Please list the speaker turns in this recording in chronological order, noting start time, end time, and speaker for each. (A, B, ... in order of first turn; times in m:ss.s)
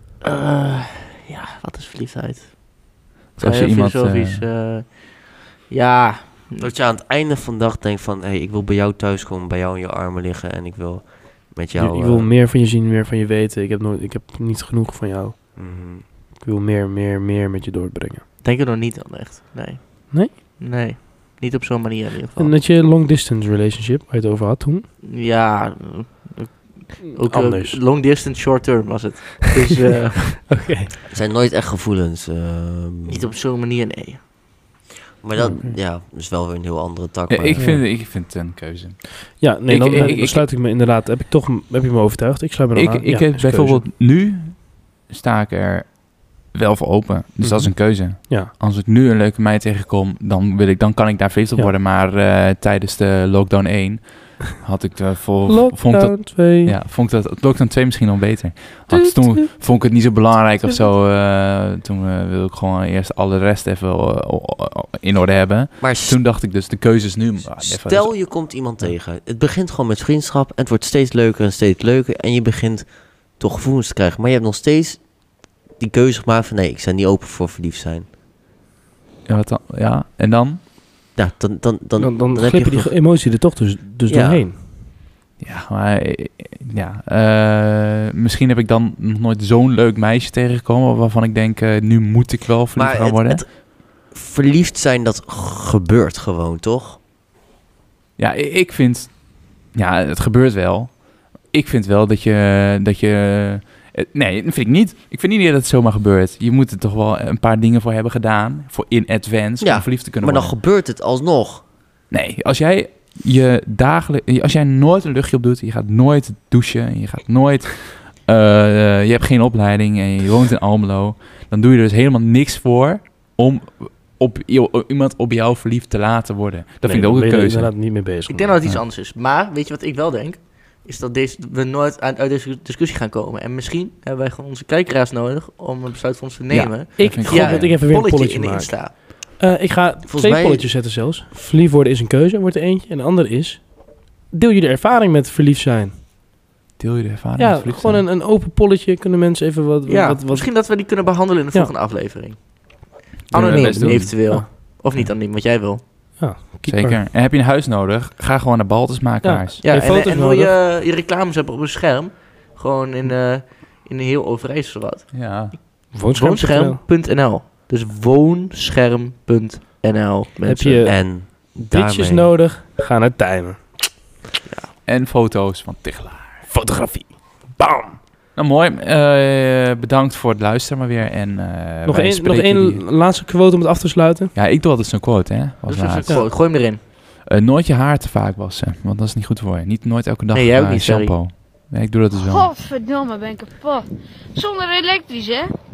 0:00.2-0:06.7 A
0:03.4-0:04.4 B
0:06.6-0:12.3 C
0:11.8-0:15.6 D
0:15.6-0:16.0 C
0:16.4-0:18.2 D
0:18.4-0:22.6 A
0:22.4-0:24.9 D
0:25.0-0:30.6 A
0:27.2-0:27.8 D
0:30.5-0:30.9 D
0:31.1-0:33.3 C
0:33.1-0:34.2 A
0:35.2-0:37.7 C
0:35.4-0:35.8 D
0:37.3-0:40.5 B
0:37.6-0:37.8 D
0:39.4-0:43.8 D
0:42.8-1:08.3 B
0:47.4-0:48.5 D
0:55.5-0:56.8 D
0:58.9-0:59.5 D
1:05.8-1:06.2 C
1:07.6-1:12.8 C
1:13.4-1:15.0 C
1:15.8-1:18.1 C
1:19.3-1:20.6 B
1:21.2-1:23.0 C
1:22.0-1:24.6 D
1:24.1-1:24.4 C
1:25.4-1:33.4 B
1:32.8-1:37.0 C
1:38.2-1:50.6 B
1:49.6-1:51.6 C
1:52.1-2:07.9 B
2:06.8-2:08.6 D
2:08.3-2:19.0 A
2:16.5-2:17.7 B
2:17.0-2:26.0 D
2:20.1-2:20.7 C
2:26.8-2:28.1 B
2:27.4-2:30.6 D
2:29.9-2:35.8 A
2:33.3-2:34.4 B
2:33.3-2:34.4 D
2:36.2-2:37.0 D
2:36.6-2:39.6 B
2:39.2-2:40.5 D
2:39.6-2:45.6 A
2:45.1-2:45.6 B
2:45.9-2:46.8 D
2:46.1-2:51.0 A
2:50.5-2:53.9 D
2:50.8-2:52.3 C
2:54.5-2:54.7 A
2:54.8-2:56.4 B
2:56.5-2:58.0 D
2:58.4-3:02.8 B
3:01.8-3:04.3 D
3:04.4-3:06.4 B
3:05.7-3:06.8 A
3:07.2-3:12.5 B
3:10.3-3:11.2 A
3:12.1-3:15.5 E